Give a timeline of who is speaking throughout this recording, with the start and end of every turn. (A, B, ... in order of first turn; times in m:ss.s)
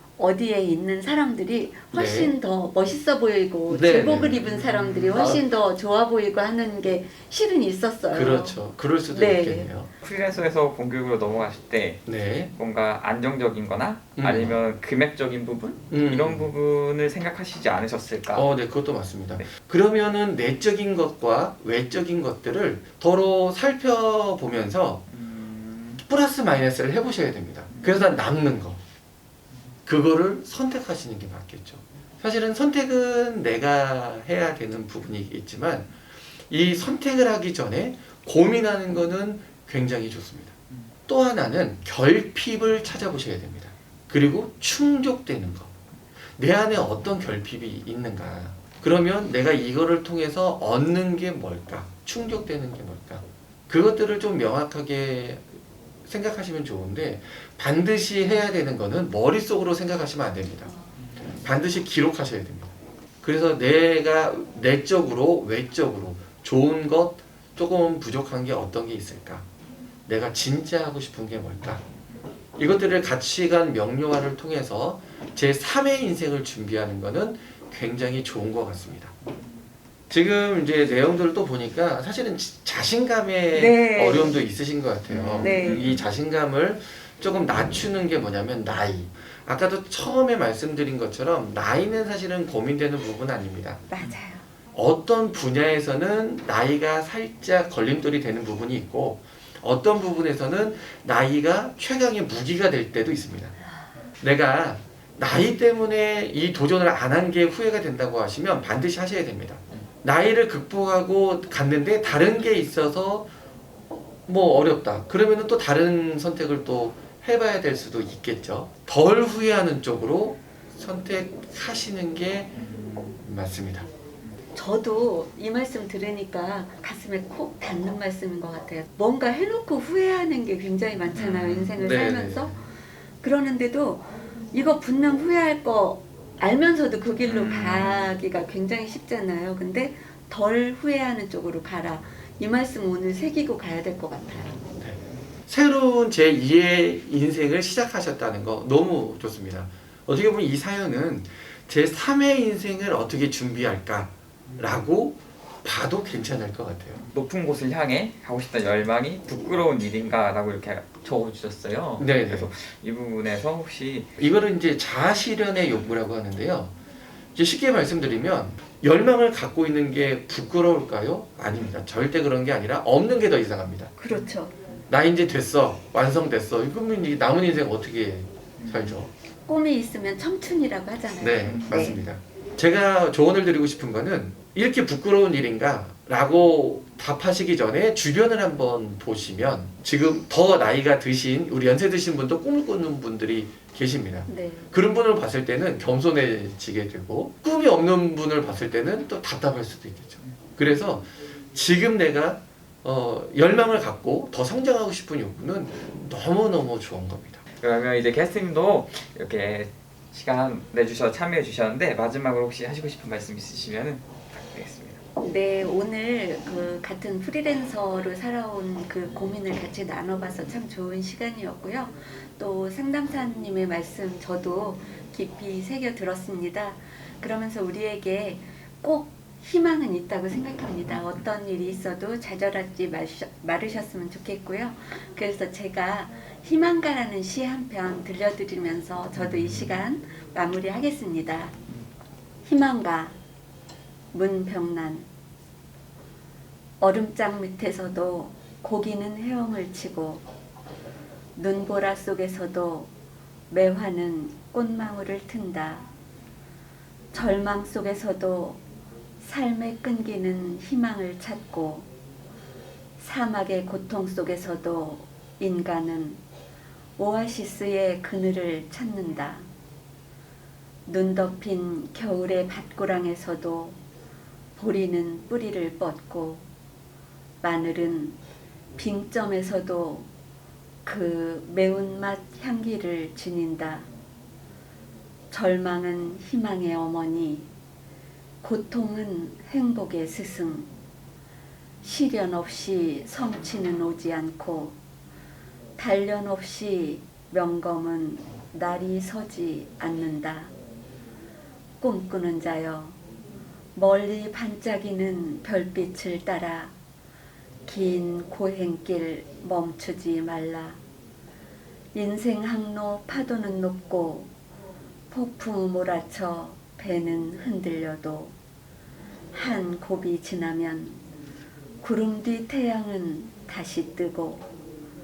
0:00.2-0:08.6 A
0:01.9-0:02.3 B
0:03.7-0:04.5 B
0:04.6-0:05.1 C
0:05.0-0:05.4 B
0:08.1-0:09.9 B
0:09.1-0:09.7 A
0:10.0-0:18.5 C
0:12.1-0:12.5 B
0:14.2-0:14.6 B
0:15.9-0:16.5 B
0:18.3-0:25.1 B
0:25.1-0:26.0 C
0:26.0-0:28.8 B
0:27.7-0:28.1 C
0:29.9-0:35.9 B
0:36.5-0:40.5 B
0:41.1-0:45.7 B
0:46.4-0:55.5 B
0:56.1-1:00.7 B
1:01.3-1:09.5 B
1:10.1-1:11.8 B
1:12.6-1:19.1 B
1:20.1-1:33.8 B
1:23.5-1:24.4 A
1:25.1-1:26.0 C
1:25.4-1:25.8 A
1:33.9-1:34.5 A
1:34.7-1:43.6 B
1:44.2-1:53.3 B
1:54.3-2:02.6 B
2:02.6-2:03.2 C
2:03.2-2:03.9 B
2:04.5-2:12.6 A
2:11.1-2:11.7 C
2:11.7-2:12.6 B
2:13.2-2:24.6 A
2:17.2-2:18.0 C
2:24.7-2:37.0 B
2:37.1-2:44.1 C
2:42.0-2:42.5 B
2:44.2-2:46.7 B
2:47.4-2:53.9 B
2:54.0-2:54.5 A
2:54.9-2:59.1 B
2:58.6-2:59.0 C
2:59.5-3:02.0 A
3:01.2-3:27.4 B
3:01.5-3:01.9 C
3:14.3-3:14.7 A
3:27.6-3:35.0 C
3:35.2-4:01.5 A
3:59.2-3:59.8 C
4:02.4-4:03.2 A
4:04.1-4:05.1 A
4:06.8-4:10.2 A
4:11.4-4:12.9 A
4:13.5-4:15.9 A
4:17.1-4:18.6 A
4:19.2-4:21.9 A
4:23.0-4:26.2 A
4:27.0-4:29.5 A
4:30.9-4:33.8 A
4:34.6-4:36.4 A
4:37.4-4:38.2 A
4:38.8-4:40.1 A
4:40.8-4:43.9 A
4:45.3-4:47.5 A
4:48.4-4:50.7 A
4:51.8-4:54.8 A
4:55.8-5:00.5 A
5:01.8-5:03.0 A
5:03.8-5:06.7 A
5:07.7-5:10.8 A
5:11.9-5:14.3 A
5:15.1-5:18.3 A
5:19.3-5:21.0 A
5:21.8-5:24.4 A